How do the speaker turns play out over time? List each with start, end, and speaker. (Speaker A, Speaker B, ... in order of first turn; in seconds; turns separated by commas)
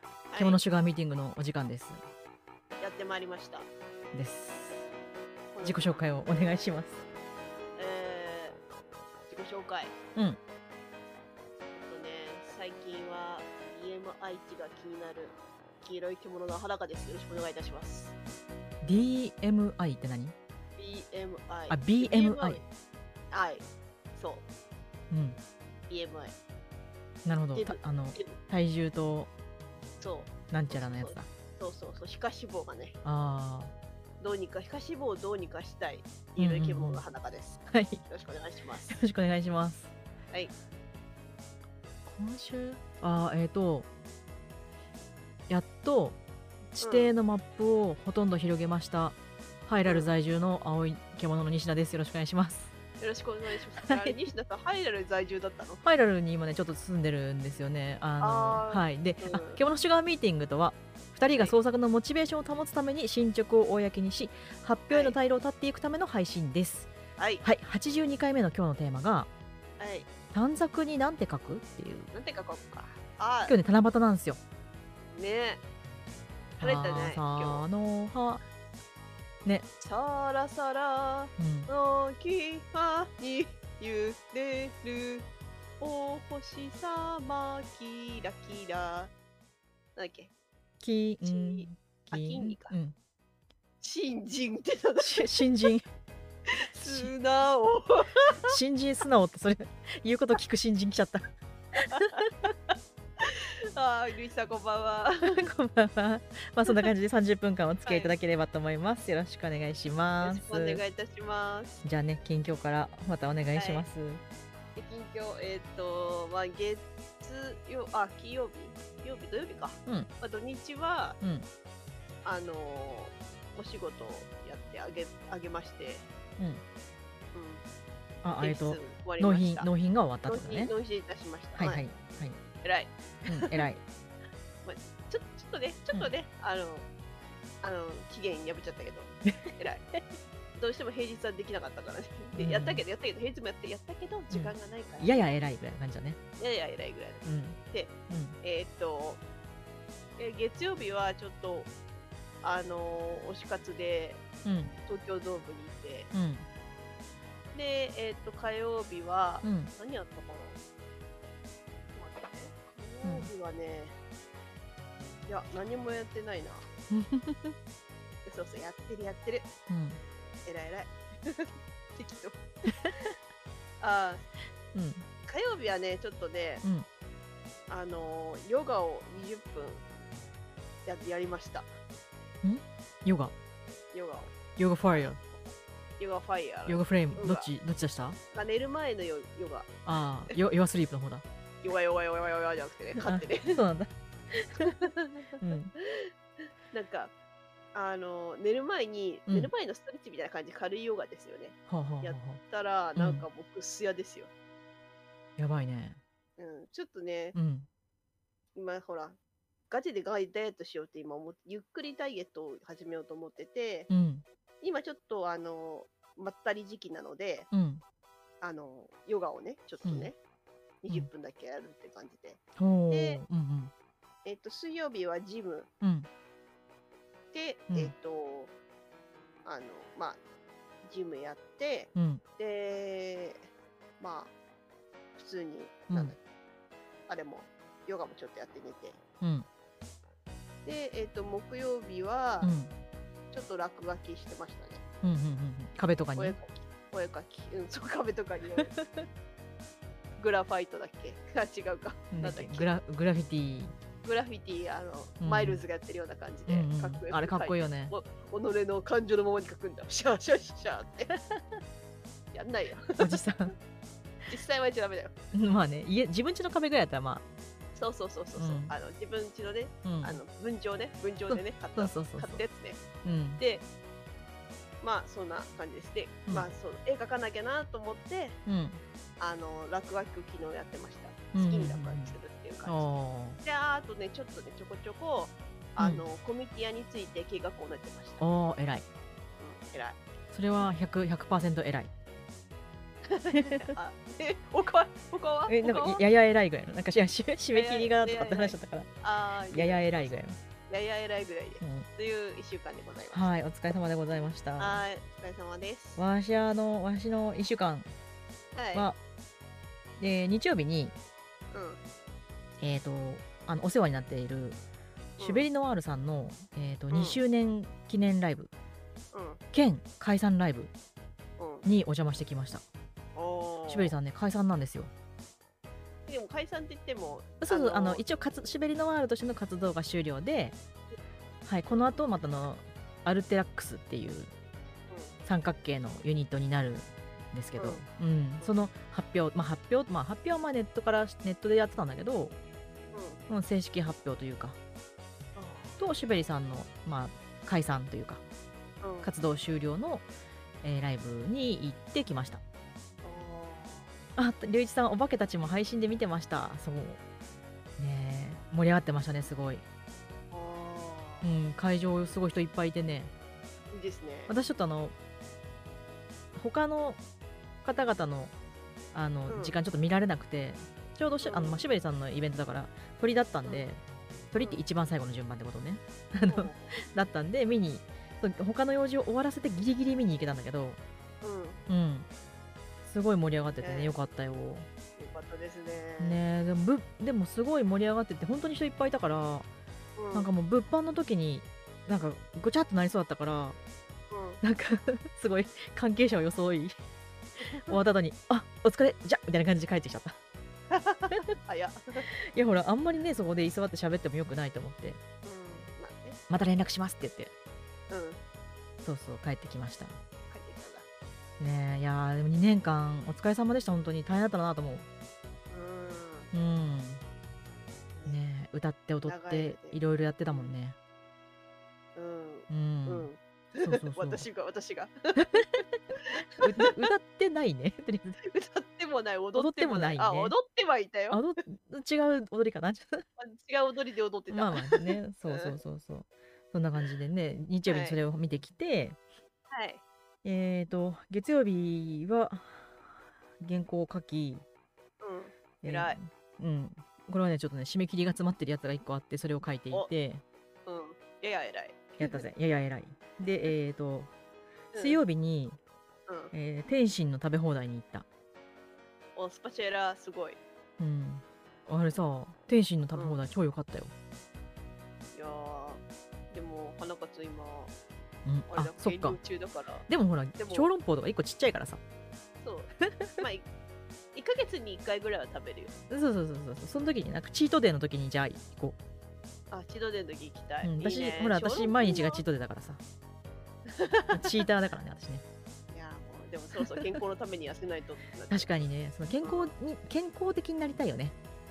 Speaker A: 0.3-0.6, Speaker B: 0.4-2.0, Speaker A: 2.8-3.7, Speaker B: 4.1-4.9, Speaker A: 5.5-6.0, Speaker B: 5.6-7.0, Speaker A: 7.8-8.6, Speaker A: 9.3-9.9, Speaker A: 11.7-18.1, Speaker B: 18.8-20.4, Speaker A: 20.8-22.6, Speaker B: 21.7-22.6, Speaker A: 23.3-23.6, Speaker A: 24.1-24.4, Speaker B: 25.1-25.4, Speaker A: 25.9-26.4, Speaker B: 27.2-29.3, Speaker A: 27.6-28.4, Speaker A: 30.0-33.0, Speaker B: 30.5-31.3, Speaker B: 33.0-33.7, Speaker A: 34.2-39.0, Speaker B: 36.4-37.0, Speaker B: 37.7-38.0, Speaker B: 38.9-39.9, Speaker B: 42.1-43.9, Speaker B: 45.5-46.2, Speaker B: 46.8-52.7, Speaker A: 46.8-47.1, Speaker A: 49.9-50.1, Speaker A: 53.0-55.8, Speaker B: 53.8-54.1, Speaker B: 55.8-69.3, Speaker A: 58.2-59.6, Speaker A: 64.9-65.2, Speaker A: 67.2-67.5, Speaker A: 69.8-70.1, Speaker B: 70.3-72.1, Speaker A: 72.1-73.6, Speaker B: 73.5-74.4, Speaker A: 75.1-75.6, Speaker B: 76.6-78.4, Speaker A: 76.6-77.7, Speaker A: 79.8-85.3, Speaker B: 81.4-81.7, Speaker A: 85.8-89.1, Speaker A: 90.0-90.3, Speaker B: 90.8-93.0, Speaker A: 91.2-92.8, Speaker A: 93.8-95.5, Speaker B: 95.0-95.9, Speaker A: 96.5-98.6, Speaker B: 96.8-97.1, Speaker B: 98.5-101.3, Speaker A: 101.9-105.5, Speaker B: 101.9-102.3, Speaker B: 105.2-110.8, Speaker A: 107.8-108.1, Speaker A: 110.2-111.8, Speaker B: 111.8-114.2, Speaker A: 113.5-113.9, Speaker A: 114.8-121.2, Speaker B: 121.2-121.5, Speaker A: 122.2-126.1, Speaker A: 127.3-127.6, Speaker B: 128.2-130.7, Speaker A: 128.4-129.7, Speaker A: 130.3-131.8, Speaker B: 131.6-132.4, Speaker A: 132.6-133.7, Speaker B: 133.3-133.8, Speaker A: 134.7-136.9, Speaker A: 137.6-139.8, Speaker B: 139.3-140.0, Speaker A: 140.6-145.2, Speaker B: 142.4-142.8, Speaker B: 144.3-146.2, Speaker A: 146.4-149.2, Speaker B: 147.2-148.4, Speaker A: 150.2-151.7, Speaker A: 152.4-154.2, Speaker B: 154.4-154.7, Speaker A: 154.9-156.1, Speaker B: 156.1-156.5, Speaker A: 157.5-160.6, Speaker B: 159.4-159.7, Speaker A: 161.9-163.9, Speaker B: 163.0-163.3, Speaker A: 165.3-166.7, Speaker B: 166.9-167.6, Speaker A: 168.3-169.5, Speaker B: 169.7-170.0, Speaker A: 170.5-173.1, Speaker A: 173.8-174.2, Speaker B: 174.7-175.1, Speaker A: 175.2-176.6, Speaker A: 177.7-179.8, Speaker A: 180.9-181.7, Speaker B: 182.4-183.3, Speaker A: 183.9-184.3, Speaker B: 184.6-185.2, Speaker A: 184.9-185.3, Speaker A: 186.0-187.5, Speaker B: 186.7-188.2, Speaker A: 188.3-189.7, Speaker B: 189.8-191.2, Speaker A: 191.6-193.6, Speaker B: 193.0-194.8, Speaker A: 194.6-196.1, Speaker B: 195.4-195.7, Speaker A: 196.7-197.1, Speaker A: 197.7-204.3, Speaker B: 201.7-202.4, Speaker B: 203.0-203.3, Speaker B: 205.4-206.0, Speaker A: 206.4-207.4, Speaker B: 207.3-207.7, Speaker A: 208.6-209.2, Speaker A: 209.7-213.9, Speaker B: 213.9-214.2, Speaker A: 214.6-217.5, Speaker B: 217.5-217.8, Speaker A: 218.4-220.2, Speaker B: 219.8-220.1, Speaker A: 220.8-223.2, Speaker B: 222.6-223.7, Speaker A: 224.2-225.7, Speaker B: 225.8-226.1, Speaker A: 227.3-228.5, Speaker A: 229.4-230.2, Speaker A: 230.8-233.5, Speaker B: 231.9-232.2, Speaker A: 234.0-234.3, Speaker A: 235.2-236.2, Speaker B: 235.9-236.2, Speaker A: 237.1-239.0, Speaker B: 239.2-239.5, Speaker A: 240.7-242.5, Speaker B: 242.4-242.7, Speaker A: 243.3-244.8, Speaker B: 245.0-246.4, Speaker A: 246.2-248.8, Speaker A: 250.2-252.7, Speaker B: 252.1-253.8, Speaker A: 254.0-261.1, Speaker B: 255.2-255.6, Speaker B: 256.5-257.9, Speaker A: 262.3-263.3, Speaker B: 263.0-263.5, Speaker A: 264.3-265.1, Speaker B: 265.3-267.2, Speaker A: 267.8-272.8, Speaker B: 268.4-268.7, Speaker B: 269.8-270.2, Speaker B: 271.3-272.4, Speaker B: 273.0-273.4, Speaker A: 273.4-273.6, Speaker A: 274.8-278.4, Speaker B: 276.3-276.5, Speaker B: 278.5-278.8, Speaker A: 279.2-288.2, Speaker B: 281.3-283.4, Speaker B: 285.8-286.0, Speaker B: 288.2-288.9, Speaker A: 289.4-290.0, Speaker B: 290.3-291.9, Speaker A: 293.1-296.1, Speaker B: 293.3-293.7, Speaker B: 295.5-298.9, Speaker A: 297.5-300.1, Speaker B: 299.5-300.4, Speaker A: 300.7-303.3, Speaker B: 301.6-301.9, Speaker B: 303.1-304.8, Speaker A: 304.6-306.0, Speaker B: 306.0-307.9, Speaker A: 308.6-308.9, Speaker B: 310.0-310.9, Speaker A: 311.5-311.8, Speaker B: 312.6-314.6, Speaker A: 315.2-315.5, Speaker B: 315.2-318.5, Speaker A: 316.9-317.2, Speaker A: 319.1-319.4, Speaker B: 319.5-320.7, Speaker A: 321.4-321.7, Speaker B: 321.6-322.6, Speaker A: 323.2-324.0, Speaker B: 323.7-324.9, Speaker A: 326.1-328.0, Speaker B: 327.4-330.6, Speaker B: 331.5-334.3, Speaker A: 331.7-332.0, Speaker A: 334.9-335.2, Speaker B: 335.2-342.3, Speaker A: 337.6-337.8, Speaker A: 342.9-343.2, Speaker B: 343.3-344.6, Speaker A: 345.4-345.8, Speaker B: 345.8-348.2, Speaker A: 348.8-349.1, Speaker B: 349.0-350.1, Speaker B: 350.6-352.4, Speaker A: 353.0-353.9, Speaker B: 354.2-357.0, Speaker B: 357.8-359.6, Speaker A: 360.3-361.3, Speaker B: 361.2-363.1, Speaker A: 363.7-364.3, Speaker B: 364.3-364.9, Speaker B: 366.4-367.0, Speaker B: 367.6-368.3, Speaker B: 368.9-373.8, Speaker A: 369.3-369.6, Speaker A: 371.2-371.6, Speaker B: 374.3-380.8, Speaker A: 374.4-374.6, Speaker A: 376.2-376.8, Speaker A: 381.2-381.6, Speaker B: 381.7-382.1, Speaker B: 382.8-384.7, Speaker A: 383.6-383.9, Speaker A: 385.0-386.2, Speaker B: 386.0-389.5, Speaker A: 390.0-390.3, Speaker B: 390.1-393.6, Speaker A: 394.1-394.4, Speaker B: 394.4-396.8, Speaker A: 397.4-397.8, Speaker B: 397.7-400.2, Speaker A: 400.7-402.1, Speaker B: 402.1-405.0, Speaker A: 405.2-406.2, Speaker B: 406.3-407.3, Speaker A: 407.9-408.2, Speaker B: 408.8-410.0, Speaker A: 410.3-410.9, Speaker B: 411.4-414.9, Speaker A: 415.5-416.3, Speaker B: 416.3-417.0, Speaker B: 418.1-420.8, Speaker A: 419.1-419.8, Speaker A: 421.9-426.8, Speaker B: 422.5-423.1, Speaker B: 423.6-424.3, Speaker B: 426.4-428.2, Speaker A: 428.2-431.2, Speaker B: 429.4-430.4, Speaker B: 431.1-433.0, Speaker A: 433.2-435.6, Speaker B: 434.3-439.0, Speaker A: 437.7-438.0, Speaker A: 439.5-439.8, Speaker B: 440.2-442.7, Speaker B: 443.4-444.4, Speaker A: 445.0-446.0, Speaker B: 445.6-450.2, Speaker A: 450.7-452.3, Speaker B: 452.0-454.1, Speaker A: 454.7-455.0, Speaker B: 454.7-455.6, Speaker A: 456.1-456.3, Speaker B: 456.3-458.1, Speaker A: 459.2-460.4, Speaker B: 460.8-463.9, Speaker A: 462.9-463.2, Speaker A: 465.1-467.7, Speaker B: 468.2-469.2, Speaker A: 468.5-469.9, Speaker B: 469.9-471.8, Speaker A: 470.4-470.7, Speaker A: 472.4-473.4, Speaker B: 472.9-473.2, Speaker A: 474.1-475.7, Speaker B: 475.9-478.8, Speaker A: 479.5-482.2, Speaker B: 480.6-482.8, Speaker A: 483.7-484.4, Speaker B: 484.1-485.2, Speaker A: 485.7-488.6, Speaker B: 488.3-491.1, Speaker A: 489.2-489.6